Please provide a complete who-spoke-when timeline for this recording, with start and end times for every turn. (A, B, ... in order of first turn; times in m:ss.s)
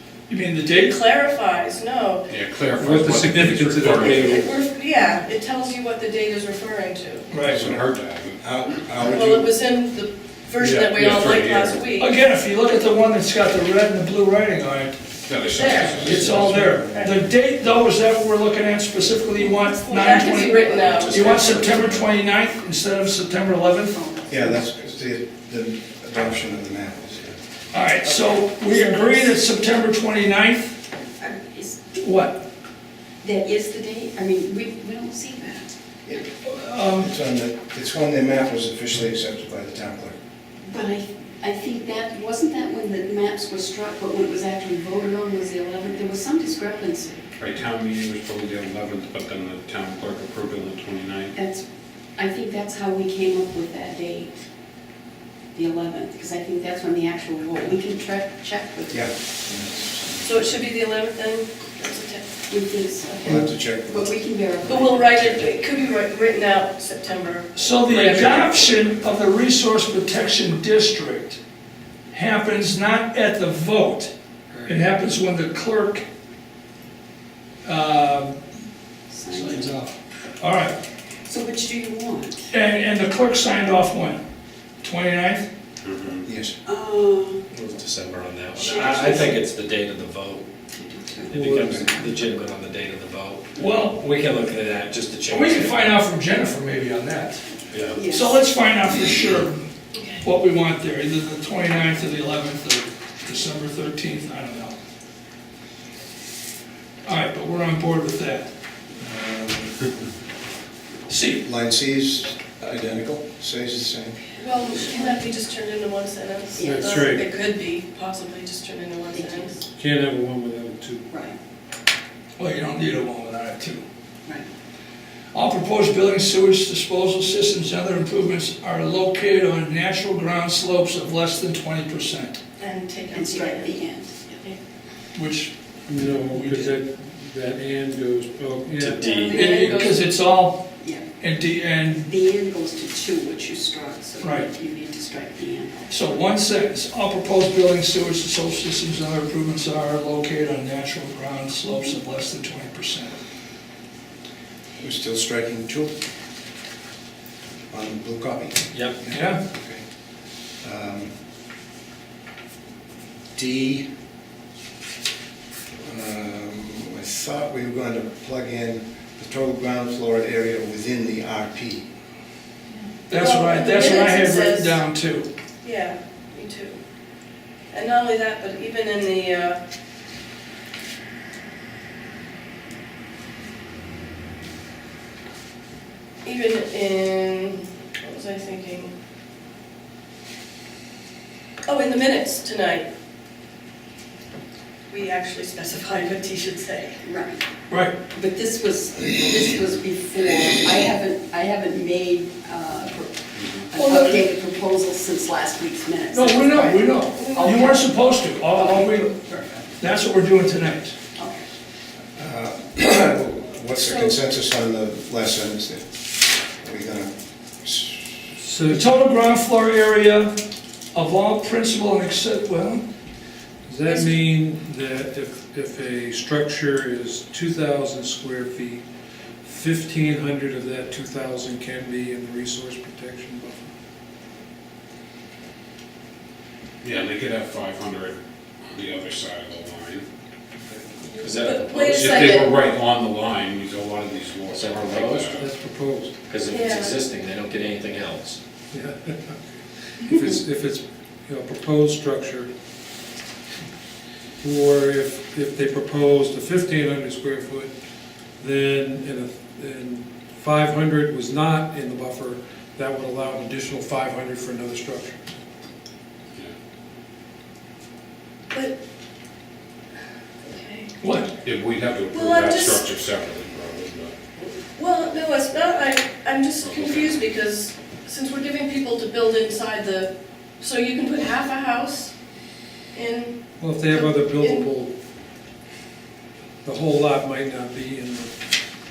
0:00.3-0:01.0 A
0:00.9-0:02.3 B
0:02.3-0:04.5 C
0:02.8-0:04.5 D
0:03.9-0:07.3 B
0:07.3-0:07.6 A
0:07.4-0:08.5 C
0:07.6-0:07.8 E
0:08.4-0:09.5 E
0:09.1-0:12.1 B
0:10.6-0:11.8 C
0:12.0-0:15.0 A
0:15.2-0:16.5 C
0:15.6-0:16.0 B
0:15.6-0:24.0 A
0:15.7-0:17.2 E
0:19.6-0:21.7 B
0:20.6-0:20.9 F
0:20.6-0:22.1 G
0:23.9-0:24.6 F
0:24.3-0:27.4 E
0:27.7-0:30.8 A
0:28.7-0:29.3 F
0:31.2-0:32.0 F
0:32.0-0:32.4 A
0:33.2-0:35.7 F
0:36.4-0:37.1 A
0:37.0-0:40.2 E
0:40.6-0:47.2 F
0:47.4-0:51.3 C
0:51.3-0:54.3 F
0:55.5-0:59.1 F
0:58.9-1:00.5 E
1:00.2-1:02.3 B
1:02.5-1:05.4 F
1:03.1-1:03.4 B
1:03.2-1:04.2 E
1:04.7-1:08.7 B
1:07.6-1:11.4 A
1:12.1-1:14.1 A
1:14.7-1:16.0 A
1:17.6-1:18.4 A
1:19.1-1:19.8 F
1:19.3-1:20.8 A
1:21.3-1:22.5 F
1:22.5-1:24.2 A
1:24.8-1:25.5 A
1:25.8-1:26.3 C
1:26.3-1:26.6 E
1:26.6-1:27.4 F
1:27.5-1:30.5 G
1:28.6-1:29.4 F
1:30.8-1:32.1 F
1:31.3-1:33.5 G
1:31.3-1:31.9 D
1:33.6-1:34.1 A
1:34.0-1:35.9 G
1:35.3-1:37.4 A
1:37.7-1:38.0 G
1:37.9-1:38.5 F
1:38.0-1:39.7 A
1:40.2-1:44.8 A
1:47.0-1:48.5 A
1:49.0-1:49.8 E
1:51.1-1:51.4 A
1:51.4-1:54.2 E
1:54.4-1:59.6 B
1:54.7-1:55.3 F
1:56.6-1:57.1 F
1:56.6-1:57.2 D
1:59.1-1:59.6 F
1:59.8-2:01.0 D
2:01.1-2:01.4 F
2:02.4-2:03.8 A
2:05.3-2:12.4 A
2:12.6-2:13.8 B
2:13.1-2:14.4 F
2:15.2-2:15.6 A
2:15.9-2:19.1 D
2:16.1-2:16.8 A
2:18.8-2:19.3 G
2:19.0-2:20.1 B
2:19.3-2:19.6 F
2:19.3-2:20.7 A
2:20.8-2:21.1 F
2:21.2-2:22.1 A
2:22.0-2:26.2 F
2:24.2-2:24.5 A
2:25.9-2:33.2 A
2:31.7-2:32.0 F
2:34.8-2:35.9 E
2:37.7-2:39.8 E
2:38.7-2:39.0 G
2:39.1-2:39.4 A
2:40.6-2:41.1 E
2:43.4-2:43.9 E
2:45.8-2:51.9 E
2:53.1-2:55.3 A
2:53.2-2:54.8 B
2:55.6-2:56.8 B
2:57.7-2:59.6 B
3:06.2-3:08.9 B
3:11.7-3:12.9 B
3:14.9-3:17.0 B
3:17.0-3:17.4 F
3:17.7-3:18.0 A
3:18.1-3:27.9 F
3:23.4-3:23.7 C
3:23.8-3:24.2 A
3:26.1-3:29.2 A
3:27.2-3:27.7 B
3:28.5-3:29.7 F
3:29.8-3:31.0 A
3:31.2-3:31.5 F
3:32.2-3:35.9 E
3:33.8-3:34.2 B
3:36.6-3:38.2 E
3:38.4-3:38.8 D
3:38.7-3:40.4 A
3:40.9-3:42.8 A
3:43.7-3:48.8 D
3:49.4-3:53.7 D
3:56.8-4:00.0 C
4:01.1-4:02.6 B
4:01.2-4:02.3 G
4:01.9-4:05.5 C
4:04.5-4:05.4 G
4:05.4-4:06.1 D
4:06.3-4:08.4 G
4:06.5-4:07.0 B
4:08.7-4:12.5 D
4:14.4-4:17.7 D
4:18.4-4:25.2 D
4:30.4-4:30.9 B
4:31.0-4:31.3 A
4:31.4-4:34.1 C
4:32.1-4:32.8 B
4:34.4-4:42.1 B
4:36.6-4:37.3 C
4:42.9-4:44.7 B
4:43.6-4:44.9 D
4:46.6-4:48.3 D